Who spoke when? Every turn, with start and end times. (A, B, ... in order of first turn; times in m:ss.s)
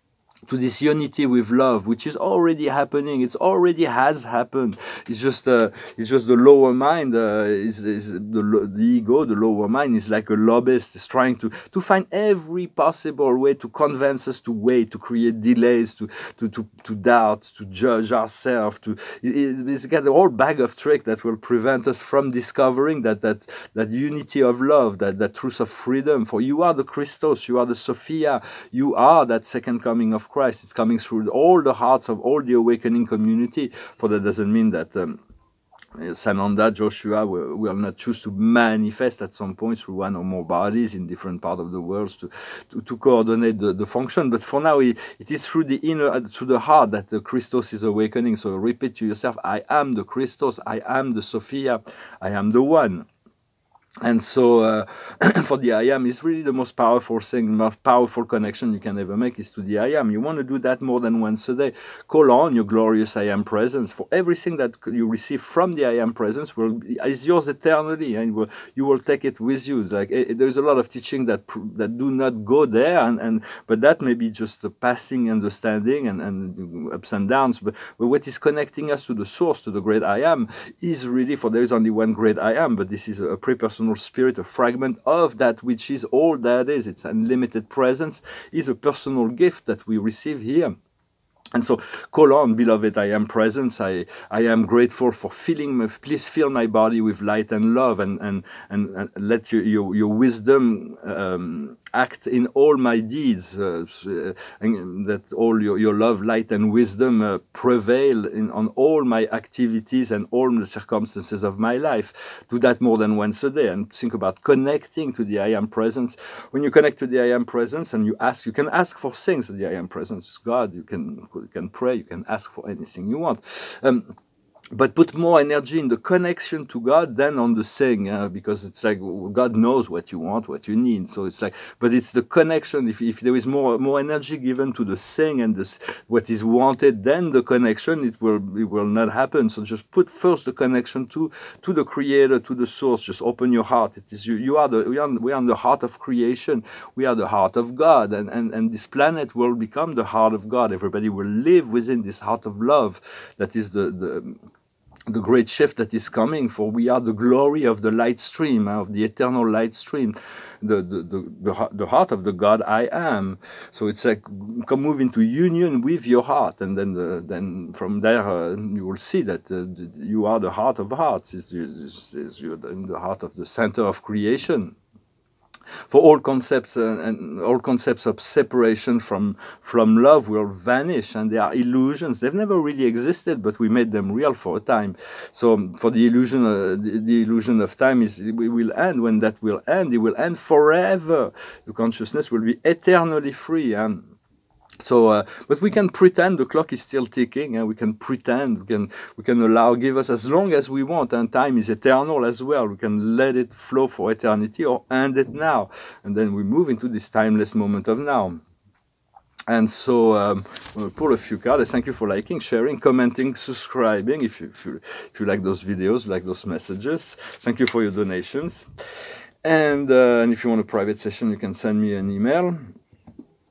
0:00.5-0:35.2 A
0:36.0-0:53.1 A
0:54.0-1:30.8 A
1:31.5-2:04.1 A
2:04.7-2:34.4 A
2:35.1-2:54.8 A
2:55.9-3:14.1 A
3:14.8-3:28.4 A
3:29.5-3:38.6 A
3:39.4-3:42.7 A